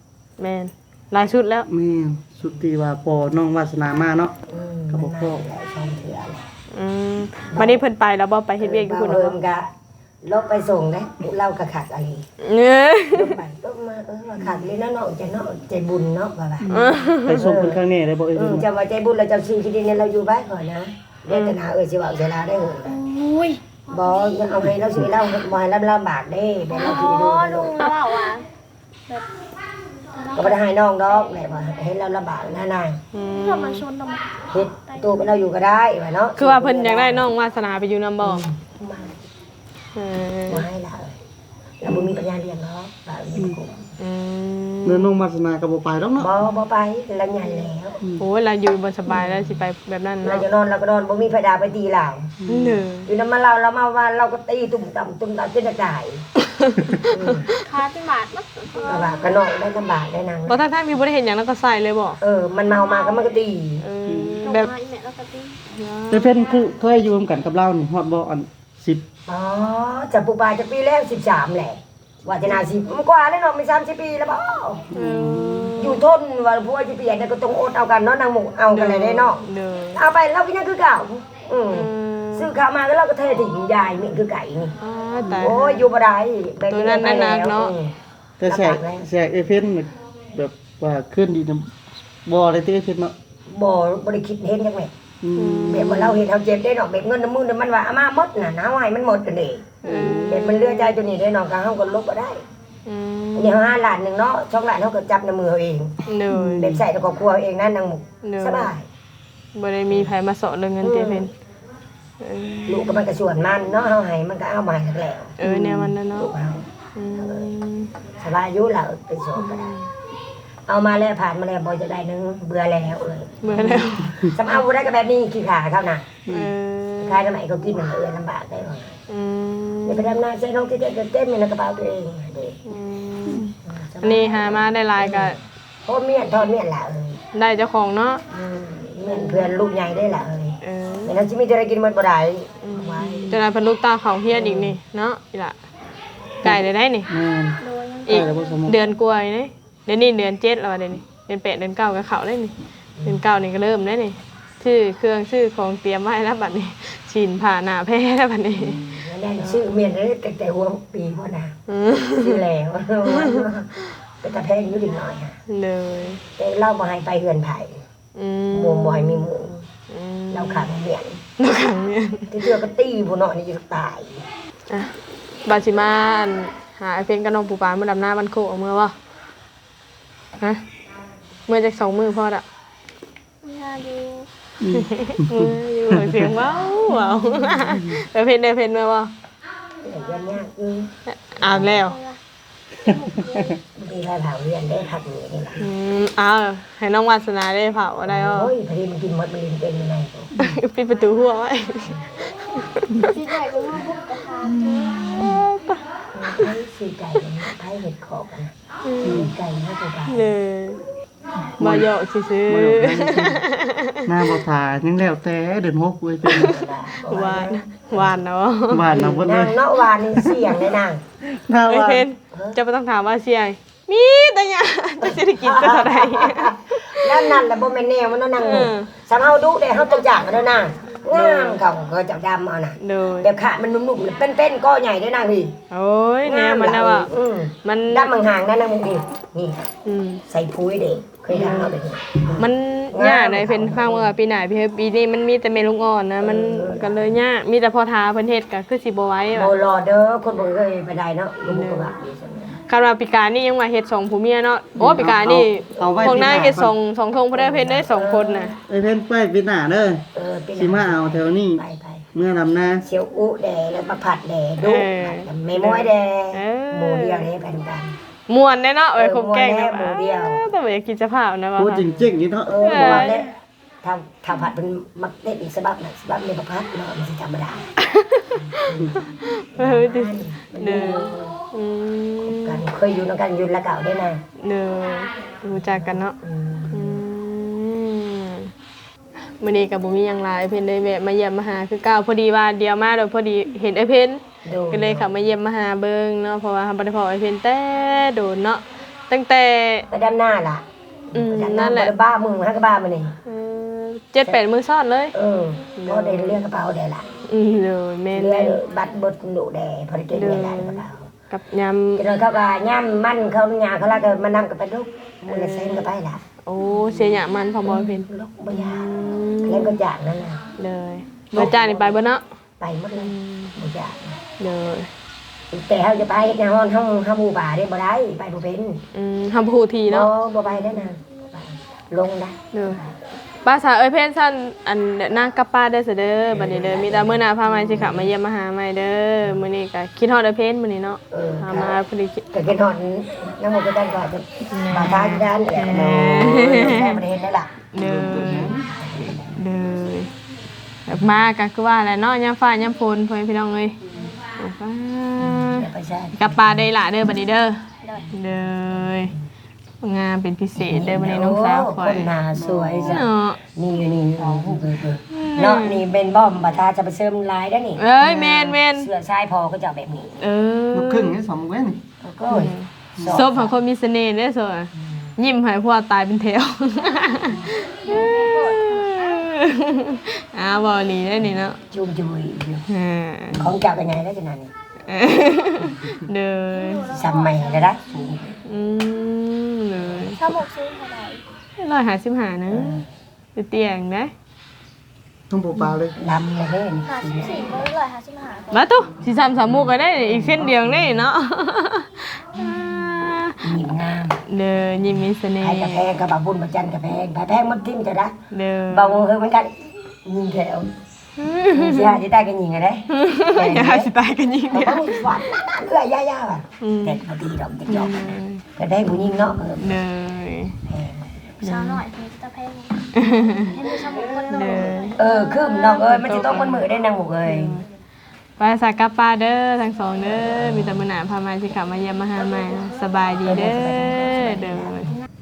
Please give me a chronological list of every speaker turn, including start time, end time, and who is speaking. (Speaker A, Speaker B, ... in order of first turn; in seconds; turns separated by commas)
Speaker A: 0.4-1.6, Speaker B: 1.7-4.3, Speaker C: 4.5-6.5, Speaker B: 4.9-5.4, Speaker A: 6.7-9.4, Speaker C: 7.5-7.8, Speaker C: 8.6-9.7, Speaker C: 10.2-12.2, Speaker A: 12.4-13.3, Speaker C: 13.1-16.7, Speaker B: 16.6-18.7, Speaker A: 16.7-17.4, Speaker C: 17.3-17.8, Speaker C: 18.3-23.0, Speaker A: 21.3-21.6, Speaker D: 22.9-23.8, Speaker C: 23.9-27.8, Speaker D: 26.7-28.4, Speaker D: 30.1-31.4, Speaker C: 30.3-33.0, Speaker A: 33.1-33.8, Speaker D: 33.4-35.3, Speaker C: 34.5-37.3, Speaker A: 36.4-38.5, Speaker C: 38.2-39.2, Speaker A: 40.0-40.6, Speaker C: 40.5-41.2, Speaker C: 41.8-43.9, Speaker A: 44.0-45.1, Speaker B: 44.8-46.3, Speaker C: 46.2-48.0, Speaker A: 48.2-50.4, Speaker C: 50.2-52.3, Speaker B: 52.4-52.8, Speaker A: 52.5-53.1, Speaker C: 53.1-56.2, Speaker A: 56.5-57.5, Speaker C: 57.1-57.5, Speaker D: 57.6-59.4, Speaker C: 58.9-60.6, Speaker A: 60.5-62.2, Speaker C: 62.2-63.8, Speaker D: 62.6-63.5, Speaker A: 63.8-64.7, Speaker B: 64.1-64.4, Speaker D: 64.4-65.6, Speaker A: 65.7-66.3, Speaker B: 66.1-69.0, Speaker D: 66.2-66.8, Speaker C: 69.3-74.8, Speaker B: 74.9-75.8, Speaker A: 74.9-76.0, Speaker C: 75.8-84.8, Speaker A: 78.7-80.0, Speaker A: 81.7-82.5, Speaker A: 84.8-85.9, Speaker B: 85.2-85.5, Speaker C: 85.4-89.1, Speaker A: 86.7-87.7, Speaker B: 88.4-91.7, Speaker B: 92.2-93.1, Speaker C: 93.5-94.9, Speaker B: 95.2-96.2, Speaker A: 95.3-96.0, Speaker C: 95.7-102.4, Speaker A: 99.8-101.0, Speaker A: 102.8-103.6, Speaker C: 103.3-106.0, Speaker A: 106.1-106.8, Speaker B: 106.3-106.8, Speaker C: 106.5-108.9, Speaker A: 108.2-108.7, Speaker A: 109.5-111.3, Speaker C: 110.8-111.3, Speaker A: 112.2-113.0, Speaker C: 112.7-115.3, Speaker A: 115.4-116.3, Speaker B: 115.4-115.9, Speaker C: 116.1-117.5, Speaker A: 116.9-117.9, Speaker C: 118.2-119.7, Speaker A: 119.3-119.9, Speaker C: 120.7-123.5, Speaker A: 123.4-124.1, Speaker B: 123.6-124.3, Speaker C: 124.2-126.2, Speaker B: 126.2-126.5, Speaker A: 126.3-127.3, Speaker C: 127.0-129.0, Speaker A: 129.1-130.2, Speaker C: 129.8-132.6, Speaker A: 132.7-135.4, Speaker C: 133.6-137.2, Speaker A: 137.3-138.2, Speaker C: 138.3-143.3, Speaker A: 139.1-139.5, Speaker A: 140.6-141.2, Speaker A: 142.6-145.6, Speaker B: 143.0-143.4, Speaker C: 144.3-144.7, Speaker A: 146.4-147.1, Speaker B: 146.4-148.7, Speaker D: 147.6-148.9, Speaker A: 148.1-158.8, Speaker C: 152.9-153.2, Speaker C: 158.6-161.6, Speaker A: 161.7-162.4, Speaker C: 162.2-165.4, Speaker A: 163.1-163.5, Speaker A: 165.5-166.2, Speaker C: 166.4-167.8, Speaker A: 168.1-169.3, Speaker C: 168.5-169.7, Speaker A: 169.9-170.7, Speaker C: 170.3-171.2, Speaker A: 171.4-172.3, Speaker C: 172.3-174.2, Speaker A: 175.4-178.9, Speaker A: 181.5-182.4, Speaker D: 183.4-184.3, Speaker B: 184.6-186.3, Speaker A: 184.7-189.1, Speaker B: 187.7-188.0, Speaker C: 189.8-191.8, Speaker A: 191.1-192.0, Speaker D: 191.7-192.2, Speaker D: 192.8-193.6, Speaker B: 192.9-193.5, Speaker C: 193.7-195.7, Speaker A: 195.6-198.5, Speaker C: 198.1-200.3, Speaker A: 200.3-203.1, Speaker D: 203.0-204.7, Speaker B: 204.4-205.4, Speaker A: 204.6-205.8, Speaker C: 206.1-210.3, Speaker A: 208.8-209.2, Speaker B: 209.0-209.3, Speaker A: 210.1-210.8, Speaker B: 211.6-211.9, Speaker A: 211.6-214.1, Speaker B: 212.5-213.4, Speaker B: 214.0-216.6, Speaker A: 216.3-219.1, Speaker C: 216.3-218.2, Speaker B: 218.7-219.6, Speaker C: 218.9-221.0, Speaker B: 221.3-222.1, Speaker A: 221.7-227.5, Speaker C: 222.3-222.6, Speaker C: 225.0-235.6, Speaker A: 228.4-228.9, Speaker A: 231.1-231.6, Speaker A: 232.8-233.3, Speaker A: 235.7-237.1, Speaker C: 236.2-239.7, Speaker A: 237.6-238.3, Speaker A: 239.8-240.2, Speaker C: 240.3-244.1, Speaker A: 241.3-241.7, Speaker A: 242.3-249.5, Speaker C: 246.2-247.1, Speaker C: 249.3-252.6, Speaker A: 251.5-251.9, Speaker A: 252.7-258.6, Speaker B: 254.8-256.7, Speaker C: 255.7-256.5, Speaker C: 257.3-258.6, Speaker B: 258.7-261.6, Speaker C: 260.1-262.0, Speaker B: 262.1-262.8, Speaker C: 262.8-267.9, Speaker A: 264.6-267.3, Speaker A: 268.3-271.9, Speaker C: 268.9-270.4, Speaker B: 271.6-273.1, Speaker C: 272.4-277.7, Speaker A: 272.6-273.2, Speaker A: 277.8-282.6, Speaker C: 278.3-281.4, Speaker C: 282.2-284.2, Speaker A: 284.4-286.1, Speaker C: 285.5-287.0, Speaker A: 286.7-288.5, Speaker A: 289.4-299.9, Speaker C: 294.4-295.1, Speaker C: 299.9-303.1, Speaker A: 301.1-301.9, Speaker A: 303.2-305.1, Speaker C: 305.1-307.1, Speaker A: 305.8-306.4, Speaker A: 307.2-308.6, Speaker C: 308.1-311.1, Speaker A: 310.1-312.0, Speaker C: 312.0-316.2, Speaker A: 315.3-315.9, Speaker A: 316.4-319.7, Speaker C: 317.6-320.4, Speaker A: 320.6-322.2, Speaker C: 321.3-321.9, Speaker C: 322.6-324.2, Speaker A: 323.0-323.5, Speaker A: 324.4-324.9, Speaker C: 325.5-328.8, Speaker A: 328.9-330.1, Speaker C: 329.9-333.0, Speaker A: 332.5-332.8, Speaker A: 333.4-342.3, Speaker C: 336.3-338.1, Speaker C: 341.1-341.8, Speaker C: 342.3-347.6, Speaker A: 344.5-347.0, Speaker A: 347.7-348.6, Speaker B: 347.7-348.7, Speaker C: 348.5-349.4, Speaker A: 349.2-350.1, Speaker A: 350.9-353.8, Speaker A: 354.4-359.1, Speaker C: 355.2-356.6, Speaker D: 357.8-358.1, Speaker A: 359.8-362.1, Speaker C: 360.6-370.3, Speaker B: 362.4-363.0, Speaker A: 362.8-363.4, Speaker B: 364.2-364.8, Speaker A: 365.1-365.8, Speaker A: 367.8-368.9, Speaker B: 368.0-368.5, Speaker A: 370.2-371.2, Speaker B: 370.7-371.8, Speaker C: 372.0-373.5, Speaker A: 372.3-381.6, Speaker B: 373.0-373.2, Speaker C: 374.8-375.1, Speaker D: 377.4-379.3, Speaker C: 381.6-382.6, Speaker A: 382.7-383.4, Speaker C: 383.3-384.5, Speaker A: 384.9-386.9, Speaker D: 386.5-387.9, Speaker C: 386.9-388.4, Speaker A: 388.4-390.2, Speaker D: 390.0-391.2, Speaker A: 391.6-392.8, Speaker C: 392.5-392.9, Speaker A: 393.3-394.1, Speaker B: 395.3-395.9, Speaker C: 396.0-397.6, Speaker D: 396.8-398.8, Speaker A: 398.5-403.4, Speaker C: 400.0-400.9, Speaker C: 403.4-404.2, Speaker A: 404.3-405.9, Speaker C: 405.4-408.1, Speaker A: 408.3-409.0, Speaker C: 408.7-410.8, Speaker A: 411.2-412.0, Speaker C: 411.5-413.9, Speaker A: 412.9-415.2, Speaker C: 414.5-419.8, Speaker A: 416.6-417.0, Speaker A: 417.7-418.4, Speaker A: 419.3-420.6, Speaker C: 420.7-421.3, Speaker D: 421.4-425.8, Speaker A: 421.4-421.8, Speaker A: 422.9-423.6, Speaker A: 424.3-425.0, Speaker C: 425.0-427.6, Speaker A: 425.8-426.7, Speaker A: 427.2-427.6, Speaker A: 428.4-434.9, Speaker C: 433.2-434.9